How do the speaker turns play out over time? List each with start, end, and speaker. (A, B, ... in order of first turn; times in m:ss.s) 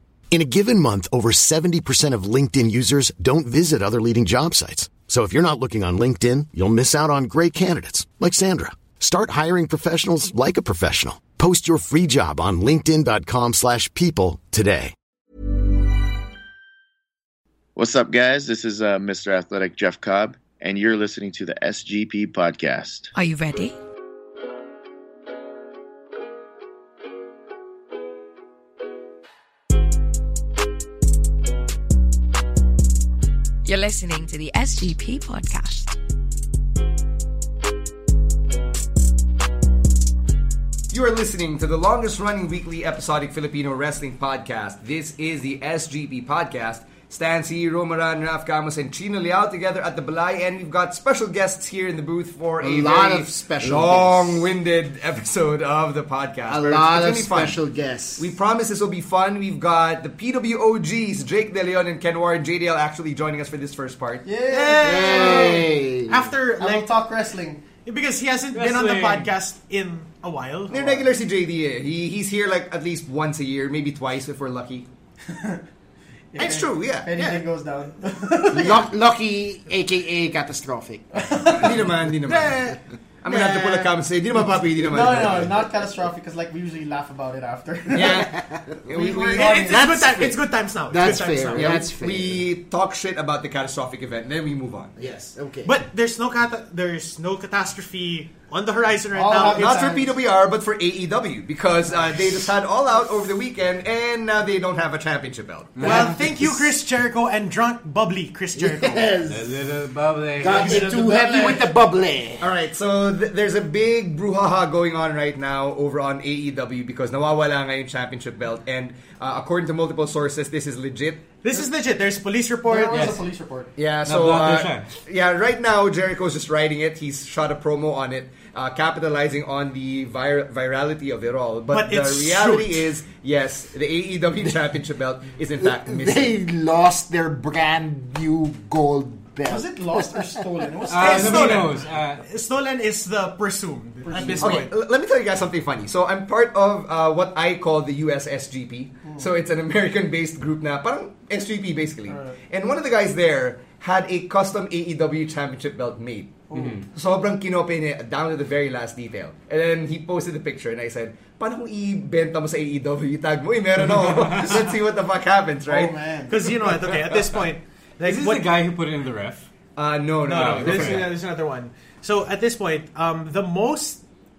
0:00.3-0:14.9 A
0:17.8-0:23.1 B
0:23.1-0:23.8 C
0:33.6-0:35.9 C
0:40.9-0:57.6 D
0:52.6-0:54.5 E
0:56.5-0:58.3 E
0:58.2-1:04.2 D
1:04.2-1:05.6 F
1:04.5-1:06.9 G
1:04.8-1:06.3 E
1:06.6-1:07.6 F
1:07.8-1:11.0 G
1:08.5-1:09.3 H
1:10.7-1:14.9 D
1:15.3-1:15.6 F
1:16.3-1:18.8 F
1:16.4-1:17.4 D
1:18.5-1:21.0 E
1:21.1-1:21.9 F
1:21.5-1:25.6 D
1:22.2-1:23.9 G
1:24.8-1:28.3 F
1:27.9-1:28.3 D
1:28.1-1:28.6 E
1:28.8-1:29.8 D
1:28.8-1:29.9 F
1:29.4-1:31.8 G
1:29.7-1:32.5 E
1:31.5-1:35.0 D
1:35.0-1:35.8 E
1:35.6-1:39.8 G
1:39.1-1:40.1 F
1:39.5-1:46.1 D
1:45.8-1:46.2 H
1:45.8-1:49.1 G
1:45.8-1:46.7 E
1:48.5-1:49.6 E
1:49.3-1:51.1 H
1:50.4-1:52.5 E
1:50.4-1:51.6 F
1:52.4-2:01.2 D
2:01.4-2:03.2 G
2:02.6-2:03.7 F
2:02.9-2:03.2 H
2:03.8-2:16.3 D
2:04.0-2:04.9 H
2:11.7-2:12.9 G
2:15.6-2:20.4 E
2:19.4-2:21.7 F
2:20.9-2:22.2 H
2:20.9-2:24.7 G
2:24.0-2:24.7 F
2:24.4-2:46.0 D
2:29.0-2:29.3 F
2:32.1-2:32.4 F
2:36.5-2:36.8 F
2:36.5-2:36.8 H
2:44.1-2:44.4 H
2:45.6-2:46.6 F
2:46.3-2:48.5 G
2:48.0-2:49.5 H
2:49.8-2:51.1 D
2:50.2-2:54.0 G
2:50.3-2:51.1 H